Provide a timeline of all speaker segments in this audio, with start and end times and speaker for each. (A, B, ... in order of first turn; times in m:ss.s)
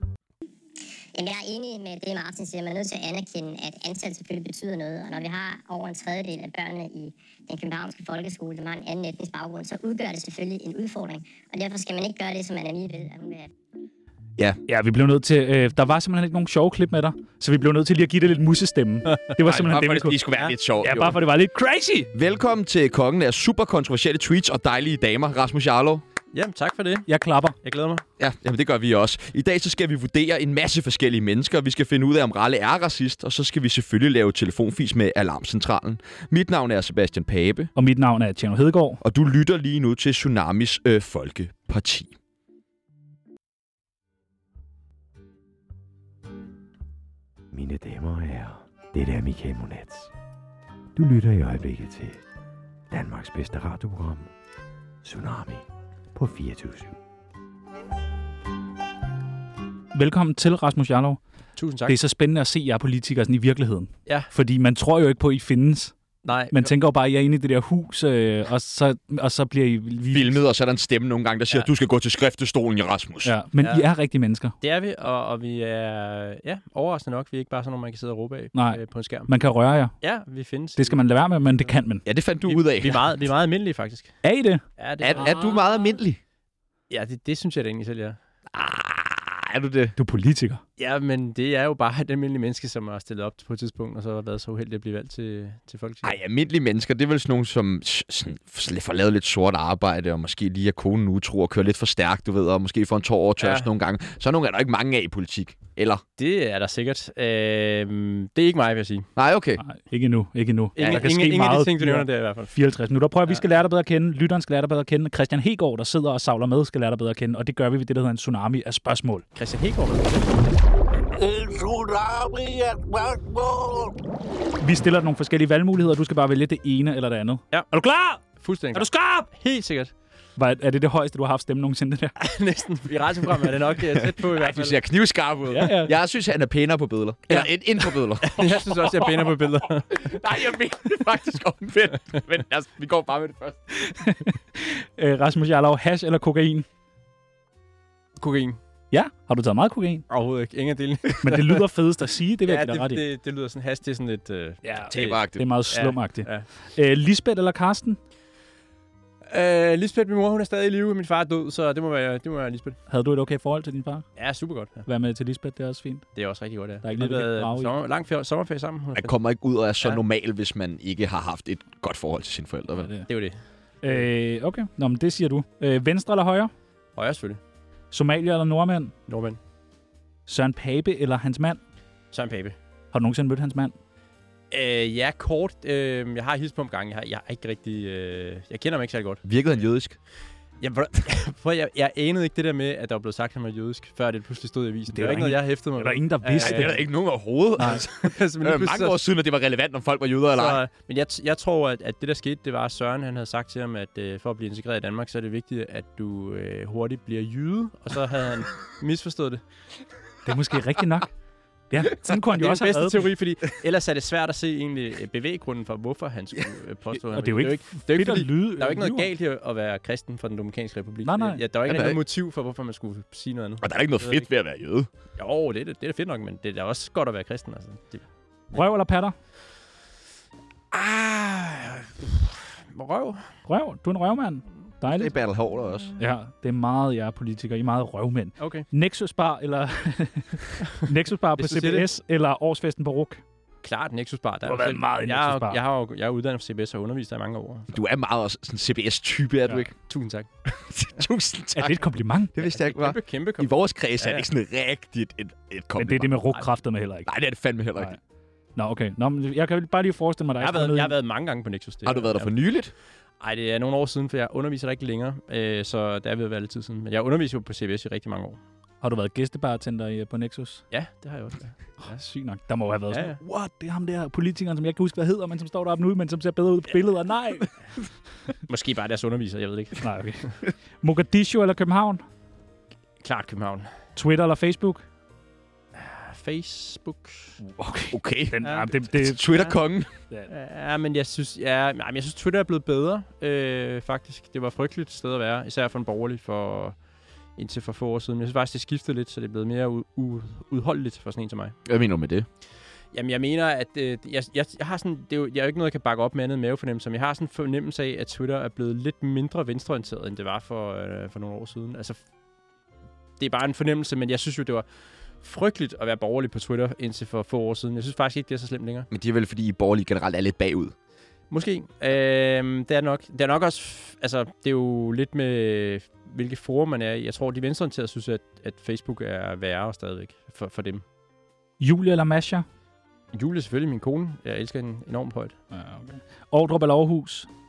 0:01.2-0:13.5 A
0:14.7-0:20.2 B
0:19.1-0:19.5 C
0:19.5-0:21.2 D
0:20.8-0:22.1 B
0:22.1-0:26.0 D
0:26.3-0:27.1 C
0:27.1-0:27.6 B
0:27.6-0:28.0 C
0:28.2-0:37.7 D
0:37.8-0:39.0 B
0:39.0-0:42.2 D
0:47.5-0:50.1 E
0:51.0-0:52.2 E
0:52.9-0:54.3 E
0:55.0-0:57.0 E
0:59.9-1:01.2 B
1:01.6-1:02.0 C
1:01.9-1:05.9 B
1:06.2-1:06.7 C
1:06.5-1:10.4 B
1:10.1-1:13.3 D
1:13.2-1:14.5 B
1:13.6-1:13.9 C
1:14.6-1:19.3 C
1:18.5-1:20.0 B
1:20.0-1:21.7 C
1:20.8-1:22.0 B
1:22.0-1:23.1 D
1:22.5-1:24.2 C
1:24.2-1:24.6 B
1:24.8-1:25.8 C
1:25.0-1:26.2 D
1:26.9-1:28.2 C
1:28.5-1:30.0 D
1:30.0-1:30.6 B
1:30.8-1:36.2 C
1:36.0-1:46.0 D
1:43.4-1:43.7 C
1:46.2-1:49.1 C
1:49.2-1:49.6 D
1:49.6-1:59.2 B
1:50.8-1:52.5 C
1:59.4-2:00.5 C
2:04.6-2:08.2 B
2:08.2-2:09.9 C
2:08.7-2:09.3 B
2:10.4-2:12.1 B
2:12.2-2:14.8 C
2:14.3-2:23.6 D
2:15.5-2:15.9 B
2:17.3-2:20.1 C
2:23.8-2:26.7 B
2:28.2-2:28.6 C
2:28.9-2:30.0 B
2:30.1-2:31.6 C
2:31.2-2:33.0 B
2:32.4-2:36.5 C
2:34.6-2:38.0 B
2:34.9-2:35.5 D
2:39.3-2:42.8 C
2:42.9-2:44.1 B
2:44.2-2:44.9 C
2:44.9-2:46.1 B
2:46.2-2:49.2 C
2:46.8-2:47.7 B
2:49.0-2:52.9 D
2:52.8-2:53.1 B
2:53.1-2:54.0 C
2:53.8-2:56.5 B
2:57.0-2:57.4 C
2:57.9-2:58.9 B
2:59.1-2:59.4 C
3:00.3-3:01.6 B
3:02.1-3:02.6 C
3:02.9-3:03.8 B
3:04.5-3:09.2 C
3:09.2-3:10.0 D
3:10.6-3:16.8 C
3:14.9-3:16.8 B
3:16.4-3:20.6 D
3:17.7-3:19.0 C
3:20.3-3:29.4 C
3:30.2-3:31.1 B
3:31.7-3:33.1 B
3:32.1-3:44.3 C
3:37.1-3:39.1 B
3:41.0-3:41.4 B
3:41.7-3:42.0 D
3:43.6-3:44.9 D
3:45.2-3:48.0 C
3:48.5-3:49.2 B
3:50.7-3:53.3 C
3:53.5-3:55.1 B
3:54.8-3:55.9 D
3:56.0-4:03.2 B
3:58.4-3:58.7 C
4:01.4-4:01.9 C
4:03.6-4:07.7 C
4:04.4-4:05.6 B
4:07.7-4:09.7 D
4:09.8-4:10.3 C
4:10.5-4:16.2 D
4:11.5-4:12.3 B
4:12.4-4:14.3 C
4:15.8-4:17.1 B
4:17.0-4:18.0 D
4:18.6-4:20.9 B
4:20.4-4:22.4 C
4:21.8-4:22.7 D
4:23.2-4:28.4 C
4:28.8-4:30.6 B
4:30.7-4:32.0 C
4:31.8-4:37.5 B
4:32.9-4:33.2 C
4:38.5-4:40.3 C
4:39.8-4:42.0 B
4:43.0-4:43.7 C
4:44.0-4:44.8 B
4:45.8-4:47.4 C
4:47.4-4:49.2 B
4:47.9-4:49.9 D
4:48.4-4:49.6 C
4:50.3-4:56.8 C
4:57.4-5:01.6 C
5:01.7-5:02.3 D
5:02.9-5:12.0 C
5:13.2-5:14.6 C
5:15.2-5:18.9 C
5:18.9-5:20.7 D
5:21.3-5:30.8 C
5:31.6-5:32.5 B
5:33.1-5:35.4 C
5:35.5-5:37.3 B